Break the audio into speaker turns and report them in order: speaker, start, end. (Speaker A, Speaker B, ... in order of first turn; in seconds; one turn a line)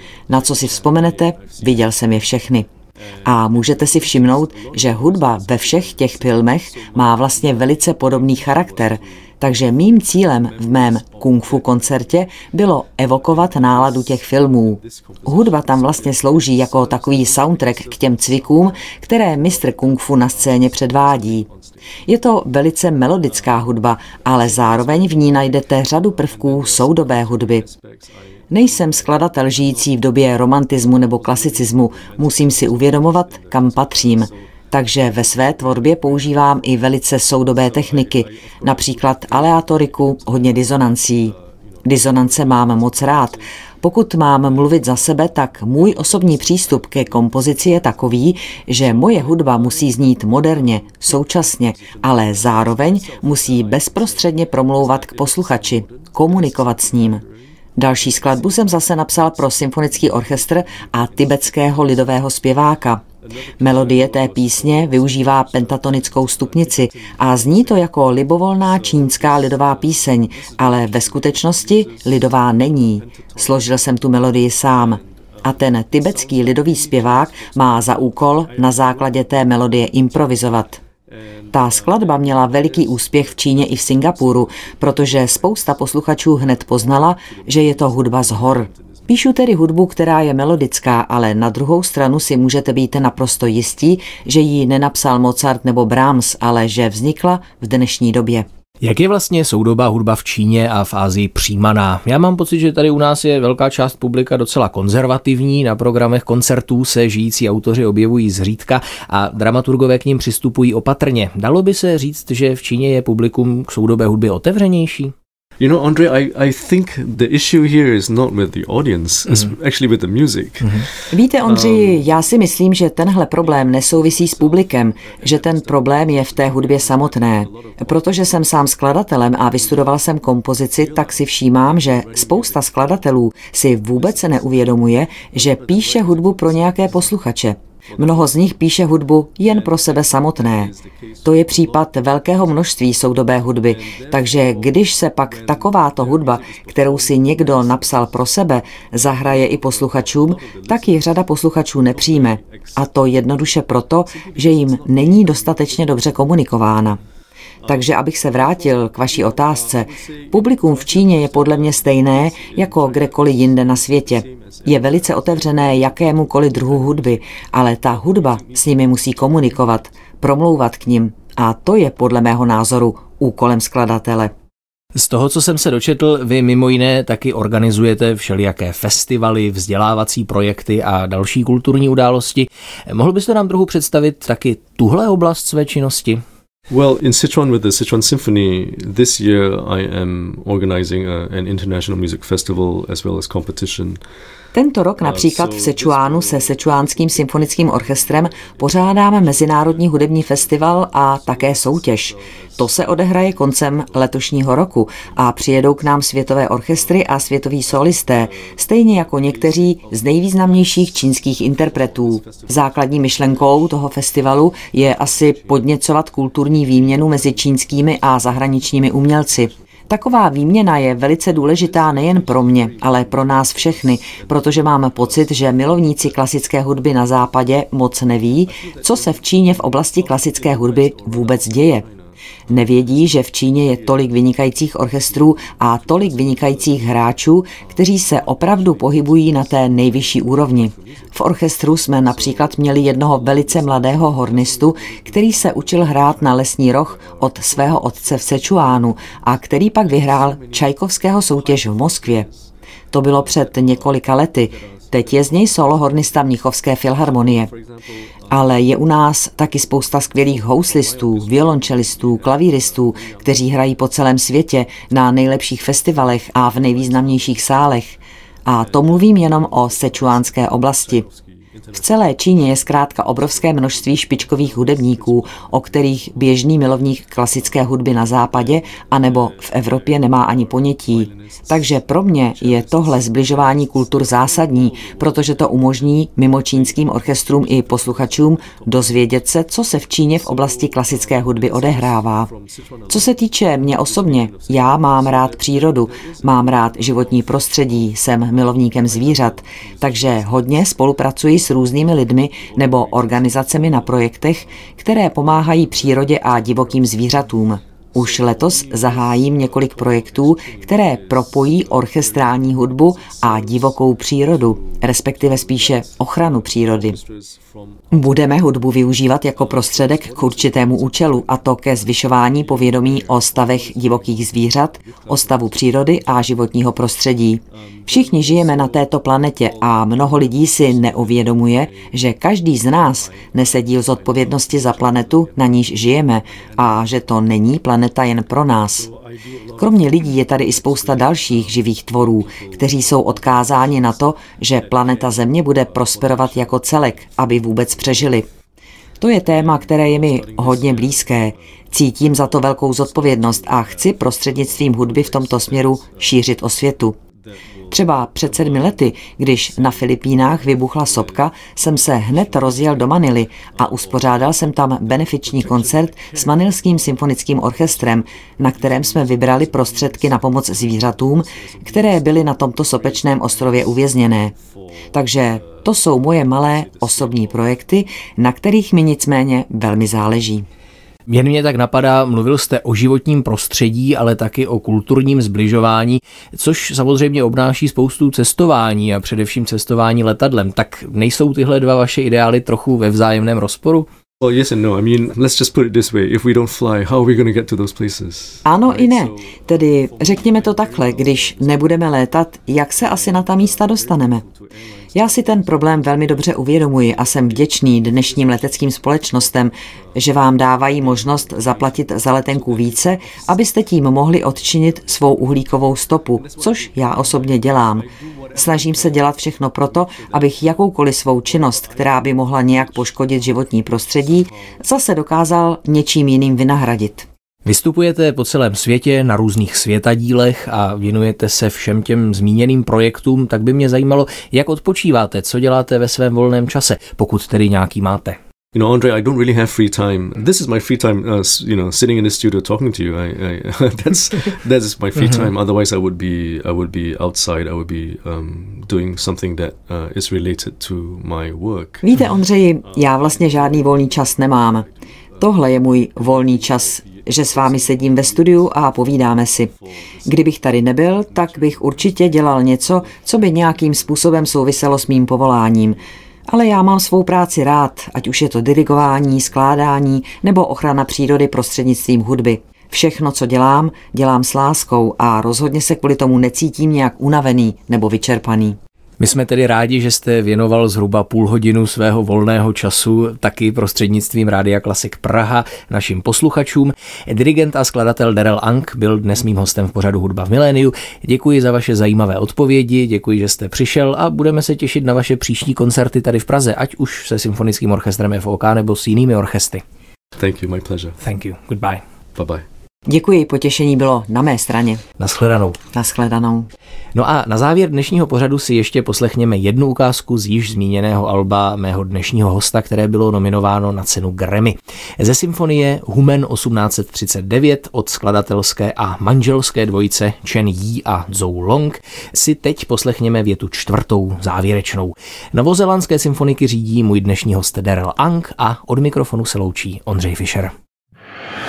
Speaker A: 0.3-1.8
Speaker B: 0.3-2.7
Speaker B: 3.2-21.5
Speaker A: 3.4-9.1
Speaker A: 10.5-12.1
Speaker A: 13.1-18.9
Speaker A: 19.4-21.8
Speaker B: 22.1-27.6
Speaker A: 24.3-25.6
Speaker A: 26.1-29.9
Speaker B: 28.5-57.2
Speaker A: 31.1-34.5
Speaker A: 35.4-36.5
Speaker A: 37.6-40.4
Speaker A: 41.9-43.4
Speaker A: 45.8-47.1
Speaker A: 48.8-50.0
Speaker A: 51.7-57.4
Speaker B: 57.8-63.0
Speaker A: 58.0-58.7
Speaker A: 59.9-61.2
Speaker A: 63.2-67.8
Speaker B: 63.6-80.8
Speaker A: 68.7-72.3
Speaker A: 73.0-73.7
Speaker A: 75.0-75.4
Speaker A: 76.0-79.3
Speaker A: 81.1-85.6
Speaker B: 81.5-98.5
Speaker A: 86.8-89.1
Speaker C: 98.8-115.1
Speaker A: 115.6-122.1
Speaker C: 120.6-120.9
Speaker B: 121.1-140.7
Speaker A: 123.4-128.2
Speaker A: 130.8-132.9
Speaker A: 134.0-134.4
Speaker A: 135.3-137.0
Speaker A: 138.0-138.2
Speaker A: 139.5-141.7
Speaker B: 141.2-157.0
Speaker A: 143.7-148.1
Speaker A: 149.1-151.0
Speaker A: 151.9-152.8
Speaker A: 154.1-156.1
Speaker B: 157.7-174.3
Speaker A: 158.3-167.0
Speaker A: 168.1-168.3
Speaker C: 174.9-186.2
Speaker A: 186.7-194.0
Speaker B: 194.5-231.8
Speaker A: 195.1-202.8
Speaker A: 207.8-210.2
Speaker A: 211.6-212.5
Speaker A: 214.7-215.6
Speaker A: 216.7-217.4
Speaker A: 221.5-225.3
Speaker A: 228.5-233.0
Speaker B: 232.5-252.3
Speaker A: 235.8-236.6
Speaker A: 238.0-241.1
Speaker A: 242.1-248.9
Speaker A: 250.0-250.6
Speaker A: 251.4-252.4
Speaker B: 252.9-257.5
Speaker A: 254.6-255.1
Speaker A: 257.5-257.9
Speaker B: 258.3-271.1
Speaker A: 260.4-263.4
Speaker A: 266.6-267.4
Speaker A: 268.7-271.8
Speaker B: 271.7-292.3
Speaker A: 273.5-275.5
Speaker A: 278.4-281.5
Speaker A: 282.4-285.6
Speaker A: 286.6-289.1
Speaker A: 290.2-293.1
Speaker B: 292.9-317.0
Speaker A: 293.7-297.8
Speaker A: 298.6-300.4
Speaker A: 302.6-303.6
Speaker A: 305.4-306.7
Speaker A: 308.0-312.1
Speaker A: 313.0-313.7
Speaker A: 315.3-315.9
Speaker A: 316.9-317.9
Speaker B: 317.9-338.9
Speaker A: 319.4-321.3
Speaker A: 322.2-324.3
Speaker A: 324.9-325.3
Speaker A: 327.9-328.8
Speaker A: 329.7-331.1
Speaker A: 333.1-335.2
Speaker A: 338.9-341.5
Speaker B: 339.6-348.3
Speaker A: 342.1-343.2
Speaker A: 345.8-346.4
Speaker B: 349.0-357.0
Speaker A: 349.5-351.2
Speaker A: 354.7-355.8
Speaker B: 357.7-374.3
Speaker A: 365.3-366.6
Speaker A: 368.6-370.4
Speaker A: 371.3-373.7
Speaker B: 374.9-380.5
Speaker A: 376.7-377.2
Speaker C: 381.1-393.9
Speaker A: 394.2-399.3
Speaker B: 398.4-404.2
Speaker A: 399.9-401.7
Speaker A: 402.8-404.5
Speaker B: 404.9-427.1
Speaker A: 410.8-411.8
Speaker A: 412.4-413.2
Speaker A: 416.2-418.9
Speaker A: 421.4-422.6
Speaker C: 427.4-438.2
Speaker A: 438.5-451.9
Speaker B: 451.8-454.7
Speaker A: 453.2-453.5
Speaker B: 455.2-459.5
Speaker A: 457.4-457.9
Speaker B: 460.1-478.6
Speaker C: 479.0-499.6
Speaker A: 500.2-501.0
Speaker C: 501.0-501.8
Speaker A: 502.2-502.4
Speaker B: 502.9-504.8
Speaker C: 505.0-505.6
Speaker B: 505.7-506.5
Speaker C: 506.9-530.5